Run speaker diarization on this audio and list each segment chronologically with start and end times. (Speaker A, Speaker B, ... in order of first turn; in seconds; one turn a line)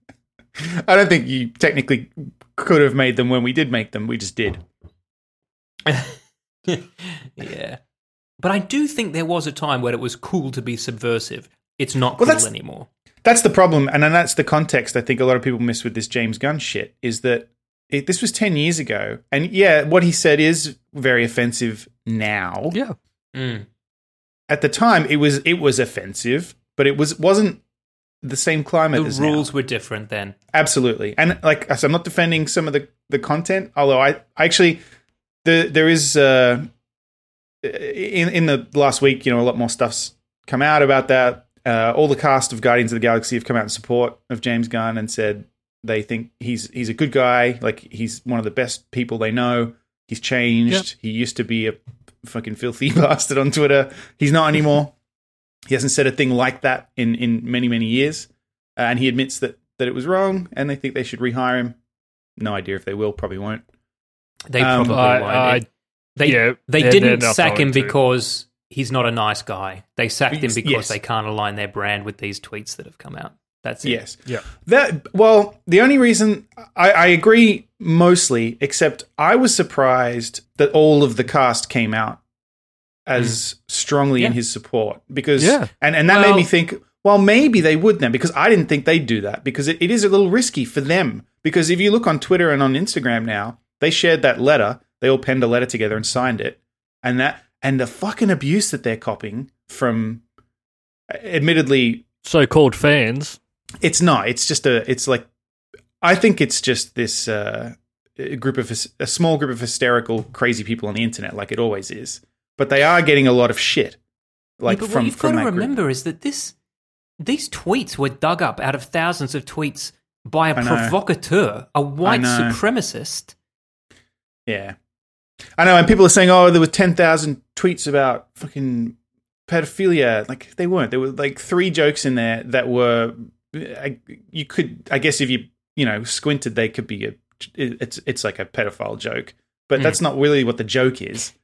Speaker A: 0.6-4.6
Speaker B: 5.8-7.8
Speaker B: 8.4-12.9
Speaker A: 12.2-12.5
Speaker A: 13.2-22.8
Speaker B: 23.3-23.6
Speaker A: 24.5-27.6
Speaker A: 28.2-29.5
Speaker B: 28.9-30.4
Speaker A: 30.5-34.8
Speaker A: 35.4-36.7
Speaker A: 37.6-54.9
Speaker A: 55.7-61.8
Speaker A: 62.4-63.6
Speaker B: 64.5-65.6
Speaker A: 64.6-65.0
Speaker C: 64.9-65.7
Speaker B: 66.2-74.0
Speaker C: 66.2-67.9
Speaker A: 70.3-71.0
Speaker A: 73.8-82.2
Speaker A: 83.1-100.2
Speaker C: 85.4-86.4
Speaker A: 101.1-102.0
Speaker C: 102.2-103.4
Speaker A: 103.8-105.3
Speaker A: 106.0-114.0
Speaker A: 114.6-115.7
Speaker B: 114.7-116.5
Speaker B: 117.2-123.3
Speaker A: 120.5-121.0
Speaker A: 122.0-122.6
Speaker A: 124.5-124.8
Speaker A: 125.6-141.3